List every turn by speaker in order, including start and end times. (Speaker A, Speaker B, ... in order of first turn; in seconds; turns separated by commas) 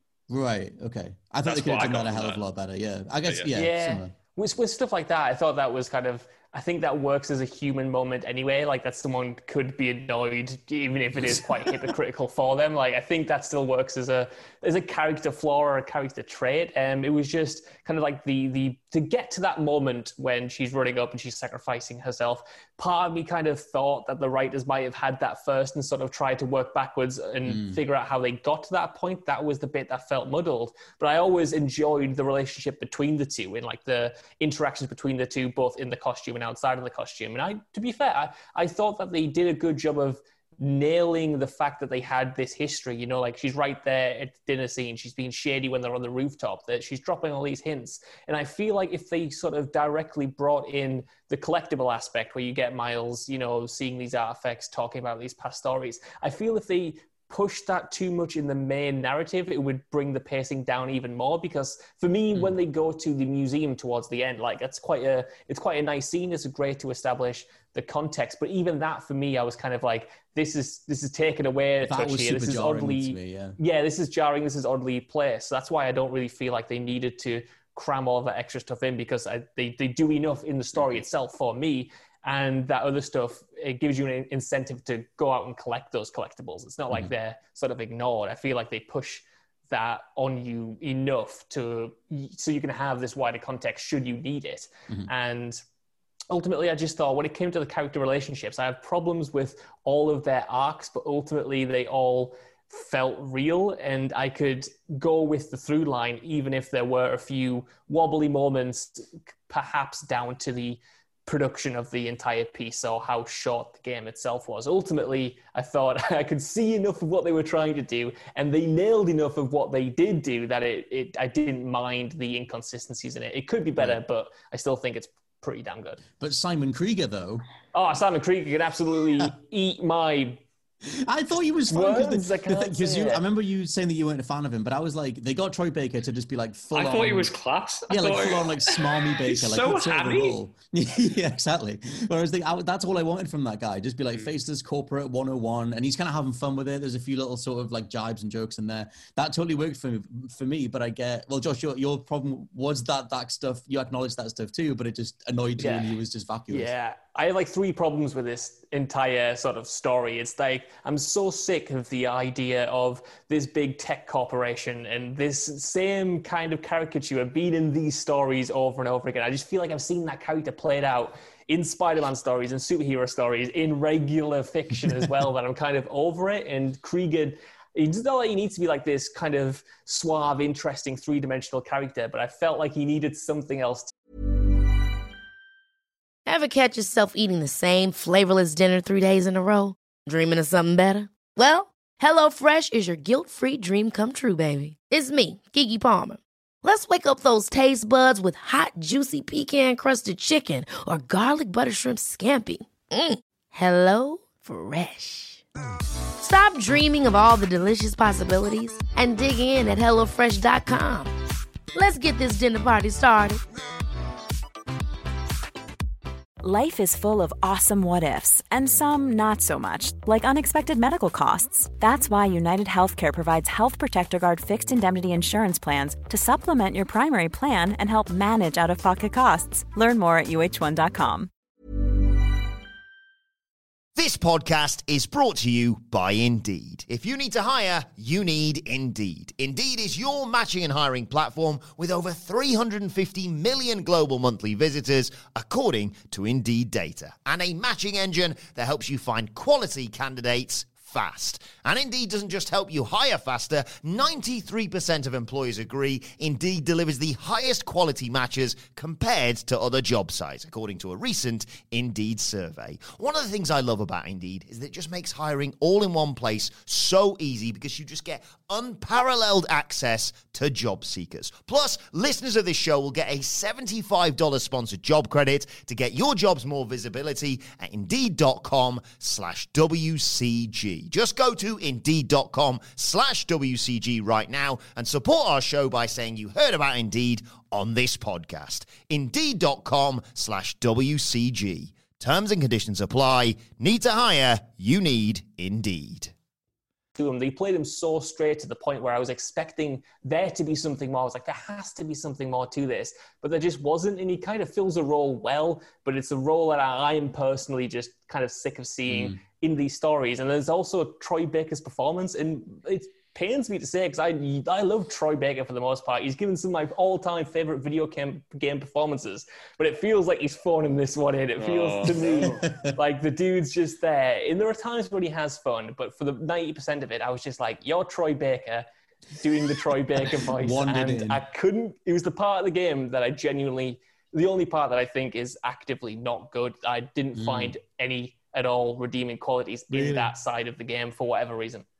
Speaker A: 0.3-4.1, Speaker B: 1.4-2.4, Speaker C: 3.5-95.6, Speaker A: 27.4-27.8, Speaker A: 71.8-73.6, Speaker C: 96.3-126.0, Speaker A: 126.2-127.4, Speaker C: 127.7-130.4, Speaker A: 130.8-137.3, Speaker C: 131.7-133.2, Speaker B: 136.7-140.4, Speaker A: 137.9-156.7, Speaker C: 155.6-155.9, Speaker C: 156.5-183.9, Speaker D: 186.2-205.4, Speaker D: 206.2-211.1, Speaker D: 211.7-213.4, Speaker E: 216.4-231.3, Speaker F: 233.9-296.1, Speaker C: 296.9-328.6, Speaker A: 308.9-309.2, Speaker B: 321.4-322.4, Speaker A: 322.2-322.7, Speaker C: 329.2-341.6, Speaker A: 330.0-331.2, Speaker A: 337.1-337.6, Speaker A: 339.7-340.1